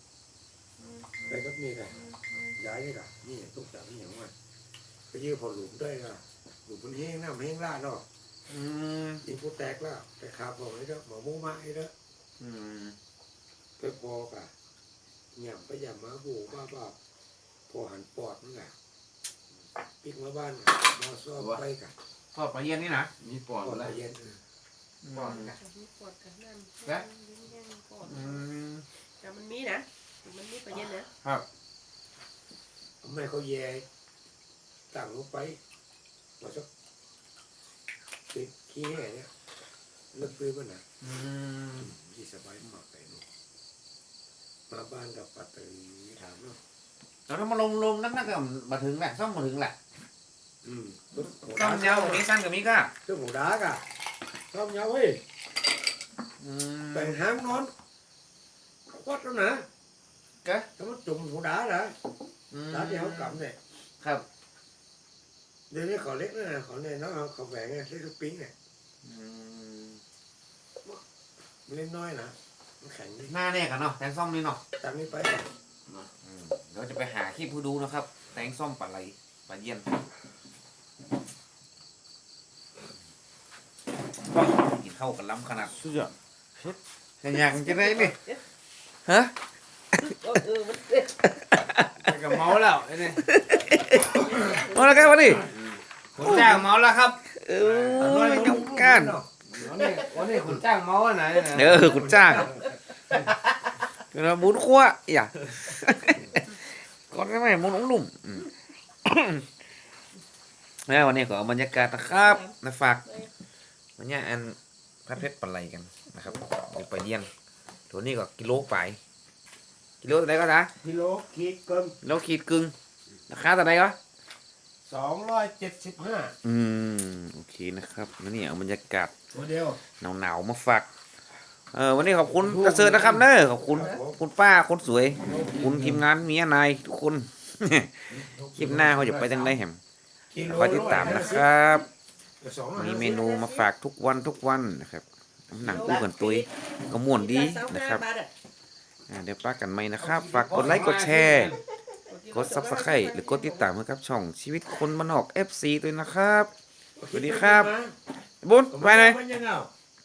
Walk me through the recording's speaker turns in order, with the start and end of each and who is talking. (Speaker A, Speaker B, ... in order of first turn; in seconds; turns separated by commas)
Speaker A: 1.2-4.3, Speaker A: 5.1-8.1, Speaker B: 8.5-9.2, Speaker A: 9.2-11.9, Speaker B: 12.4-13.0, Speaker A: 13.8-14.5, Speaker A: 15.3-17.0, Speaker A: 17.7-18.7, Speaker A: 20.0-21.9, Speaker B: 22.3-23.1, Speaker C: 23.2-23.9, Speaker A: 23.6-24.4, Speaker B: 25.0-25.5, Speaker D: 25.1-28.4, Speaker B: 28.0-28.9, Speaker D: 29.0-31.1, Speaker A: 33.0-33.9, Speaker A: 34.9-35.6, Speaker A: 36.4-36.7, Speaker A: 38.3-39.3, Speaker A: 40.1-40.8, Speaker B: 41.0-41.9, Speaker A: 41.8-43.2, Speaker A: 44.7-46.6, Speaker B: 47.3-49.8, Speaker A: 50.6-52.2, Speaker B: 51.4-52.9, Speaker A: 53.0-53.9, Speaker A: 54.5-55.2, Speaker B: 56.4-57.2, Speaker A: 56.9-57.7, Speaker A: 58.9-59.6, Speaker A: 60.8-62.0, Speaker B: 62.5-63.4, Speaker A: 62.7-63.6, Speaker B: 64.0-64.2, Speaker A: 65.7-68.5, Speaker B: 69.0-70.0, Speaker A: 71.7-73.3, Speaker B: 73.3-74.6, Speaker A: 74.8-75.5, Speaker B: 76.2-79.9, Speaker B: 84.2-85.8, Speaker C: 85.7-86.8, Speaker B: 87.2-88.2, Speaker D: 87.7-88.4, Speaker B: 89.1-89.3, Speaker D: 90.0-91.3, Speaker B: 91.5-92.1, Speaker C: 92.0-93.3, Speaker B: 93.2-95.5, Speaker D: 93.6-95.5, Speaker C: 95.4-97.2, Speaker B: 96.2-96.5, Speaker B: 97.3-99.2, Speaker A: 97.9-99.3, Speaker C: 99.5-101.8, Speaker D: 99.8-100.0, Speaker B: 101.5-102.5, Speaker A: 101.6-102.8, Speaker B: 104.1-108.5, Speaker B: 109.1-109.5, Speaker B: 110.9-113.0, Speaker D: 112.2-112.5, Speaker B: 114.0-117.3, Speaker B: 117.9-119.0, Speaker B: 120.0-120.7, Speaker A: 120.8-122.0, Speaker B: 122.0-122.7, Speaker B: 123.3-124.0, Speaker A: 124.9-126.4, Speaker B: 126.4-129.1, Speaker A: 129.3-129.8, Speaker B: 130.0-130.9, Speaker B: 131.7-139.8, Speaker A: 132.5-134.2, Speaker A: 135.2-136.0, Speaker A: 138.1-139.6, Speaker A: 140.3-141.5, Speaker B: 140.5-141.9, Speaker D: 140.6-141.4, Speaker A: 142.4-143.2, Speaker B: 142.8-148.0, Speaker D: 143.0-143.6, Speaker D: 145.7-148.3, Speaker B: 149.1-151.6, Speaker A: 150.0-151.0, Speaker C: 150.4-151.6, Speaker D: 152.0-153.7, Speaker B: 152.3-156.5, Speaker A: 157.0-158.0, Speaker B: 157.1-157.7, Speaker B: 158.4-159.2, Speaker A: 158.7-159.7